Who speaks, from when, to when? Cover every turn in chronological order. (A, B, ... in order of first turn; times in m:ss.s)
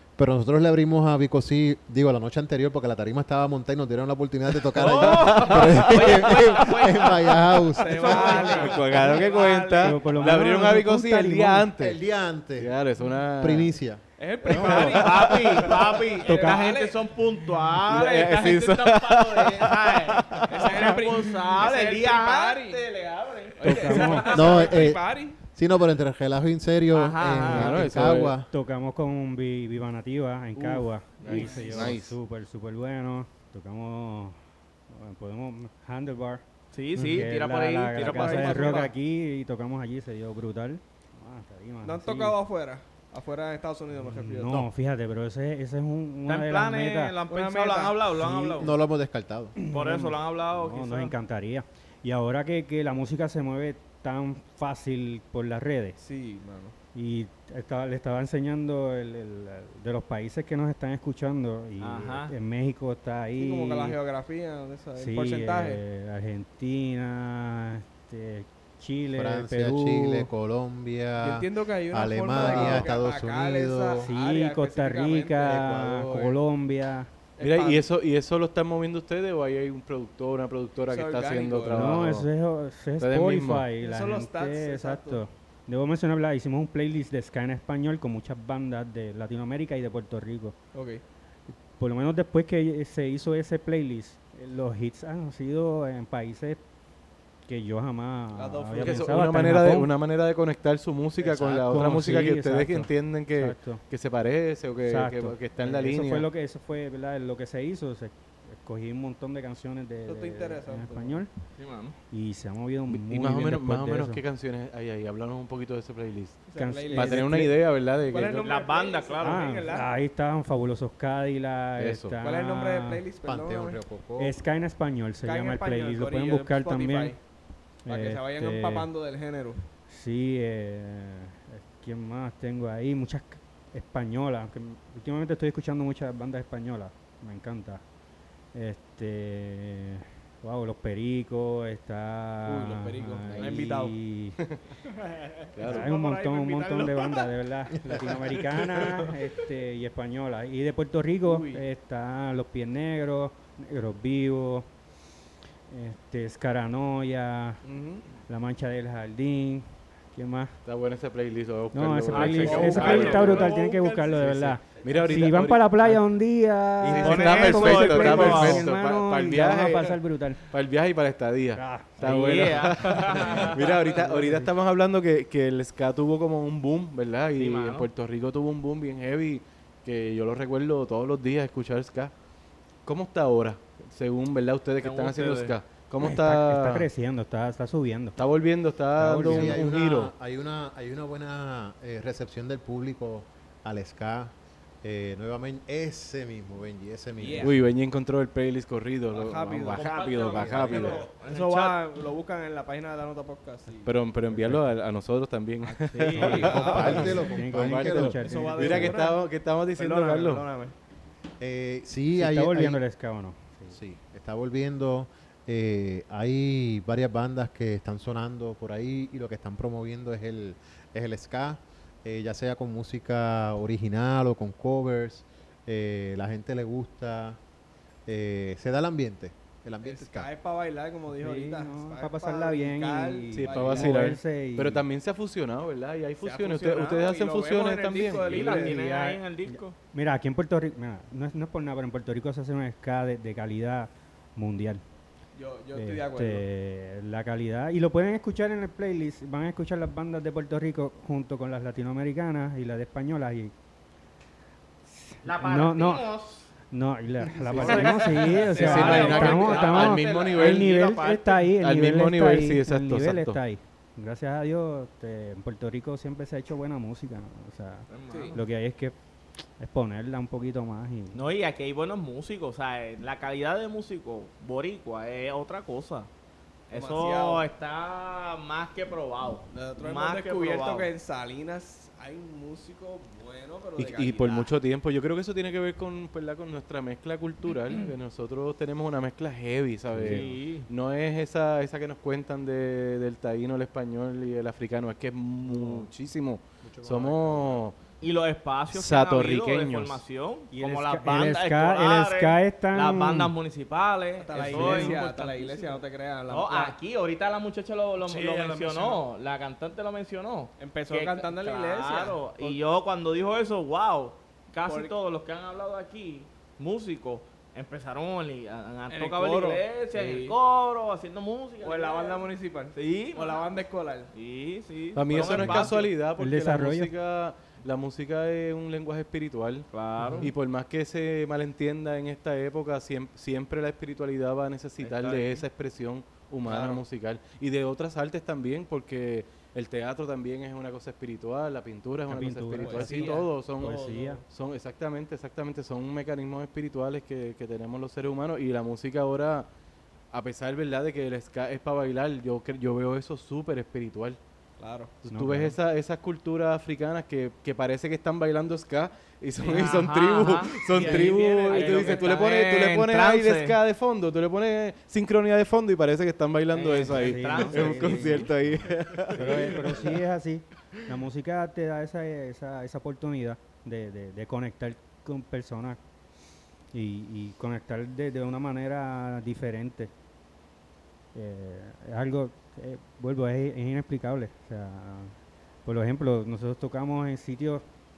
0:00.2-0:08.8 A
0:04.7-0:08.7 B
0:07.7-0:10.4 C
0:08.0-0:12.0 D
0:09.8-0:11.7 E
0:11.8-0:12.8 A
0:12.6-0:13.7 D
0:13.4-0:14.0 A
0:14.2-0:17.0 C
0:14.5-0:15.8 D
0:14.6-0:15.0 E
0:14.7-0:24.8 B
0:16.2-0:16.6 E
0:17.8-0:20.8 D
0:20.5-0:22.8 C
0:23.5-0:25.4 C
0:23.6-0:24.3 E
0:24.3-0:28.5 A
0:26.9-0:27.8 B
0:27.4-0:28.3 D
0:28.5-0:34.4 E
0:30.6-0:32.2 D
0:34.9-0:36.4 E
0:36.7-0:38.9 B
0:37.0-0:42.4 E
0:38.0-0:38.9 C
0:41.8-0:44.6 C
0:44.0-0:47.1 E
0:46.3-0:48.7 B
0:47.3-0:48.6 C
0:48.6-0:49.5 A
0:49.6-0:56.0 E
0:49.7-0:51.1 B
0:56.0-0:56.7 C
0:56.9-1:04.0 E
1:01.8-1:02.3 B
1:03.4-1:05.8 C
1:05.0-1:10.3 E
1:09.2-1:14.0 A
1:11.2-1:15.6 C
1:12.4-1:12.8 E
1:12.4-1:12.8 D
1:14.0-1:17.1 E
1:15.4-1:16.4 A
1:17.4-1:17.9 C
1:17.4-1:22.3 D
1:20.8-1:22.1 C
1:21.7-1:30.5 E
1:23.0-1:23.7 D
1:23.8-1:25.2 C
1:30.7-1:31.0 C
1:31.8-1:36.6 E
1:37.5-1:39.9 E
1:38.3-1:39.2 C
1:38.8-1:46.3 D
1:41.2-1:43.8 E
1:44.8-1:51.3 E
1:50.0-1:51.2 C
1:51.6-1:52.0 B
1:52.1-1:54.2 E
1:52.9-1:58.5 D
1:56.5-1:57.3 C
1:56.5-1:57.5 E
1:58.0-1:59.9 C
1:58.4-1:59.8 B
1:59.2-2:03.0 E
2:01.8-2:02.2 D
2:02.2-2:03.8 C
2:03.2-2:04.4 A
2:04.2-2:07.1 E
2:05.2-2:07.2 C
2:07.8-2:08.9 E
2:07.9-2:09.6 C
2:09.9-2:17.8 E
2:18.5-2:24.4 E
2:22.5-2:24.0 C
2:23.3-2:23.7 D
2:25.5-2:25.9 D
2:25.6-2:27.3 C
2:25.6-2:34.7 E
2:28.2-2:29.1 D
2:31.2-2:31.6 C
2:35.7-2:37.6 E
2:37.6-2:38.0 C
2:38.3-2:40.6 E
2:40.6-2:46.0 D
2:41.7-2:50.4 E
2:42.1-2:43.5 B
2:42.4-2:44.1 C
2:46.8-3:02.1 D
2:46.9-2:48.6 B
2:51.6-2:52.4 E
2:52.0-2:53.8 B
2:53.2-2:54.5 E
2:57.4-2:57.9 B
3:02.8-3:06.9 D
3:04.8-3:05.6 B
3:06.0-3:08.2 E
3:08.2-3:10.1 D
3:09.0-3:09.6 E
3:09.0-3:17.6 A
3:17.2-3:17.5 C
3:17.4-3:21.1 D
3:19.1-3:23.9 C
3:19.7-3:21.8 B
3:20.3-3:21.0 A
3:23.8-3:30.4 D
3:24.3-3:24.7 E
3:25.7-3:27.2 C
3:25.9-3:29.0 E
3:26.3-3:28.3 A
3:28.2-3:30.7 C
3:31.4-3:32.8 A
3:32.1-3:33.8 E
3:33.7-3:47.4 A
3:48.0-3:50.3 A
3:49.8-3:54.1 C
3:51.2-3:54.8 E
3:53.3-3:58.7 D
3:56.2-3:58.8 C
3:58.0-3:59.8 B
3:58.5-4:04.8 E
4:05.3-4:06.4 C
4:05.7-4:13.5 E
4:14.9-4:16.1 E
4:15.2-4:16.5 B
4:16.7-4:28.9 E
4:17.5-4:21.5 B
4:17.6-4:20.8 D
4:18.3-4:19.7 C
4:21.5-4:23.4 D
4:27.9-4:28.4 B
4:28.1-4:28.4 C
4:29.6-4:31.2 E
4:31.1-4:36.1 B
4:36.7-4:40.9 B
4:36.7-4:37.5 C
4:39.5-4:44.5 C
4:43.8-4:57.8 D
4:50.0-4:50.7 B
4:55.5-4:55.8 A
4:56.6-4:57.6 A
4:58.0-5:23.4 B
4:58.7-5:00.0 D
5:00.5-5:03.3 E
5:04.2-5:06.8 C
5:04.4-5:05.0 E
5:10.6-5:12.6 C
5:14.6-5:14.9 C
5:18.9-5:20.4 C
5:21.6-5:24.1 C
5:24.1-5:25.9 B
5:24.9-5:29.7 D
5:25.1-5:25.8 C
5:26.2-5:26.9 E
5:29.7-5:30.3 B
5:30.0-5:30.3 E
5:30.2-5:49.5 D
5:34.8-5:35.4 B
5:36.4-5:36.8 C
5:42.1-5:44.2 E
5:42.6-5:44.2 C
5:50.1-5:54.2 D
5:54.6-5:54.9 C
5:55.0-6:09.8 D
5:55.0-5:55.6 E
5:59.4-6:03.6 B
6:00.7-6:02.1 C
6:06.5-6:08.3 B
6:06.9-6:15.8 E
6:09.2-6:09.9 B
6:16.7-6:19.9 E
6:21.1-6:25.1 E
6:25.6-6:27.6 E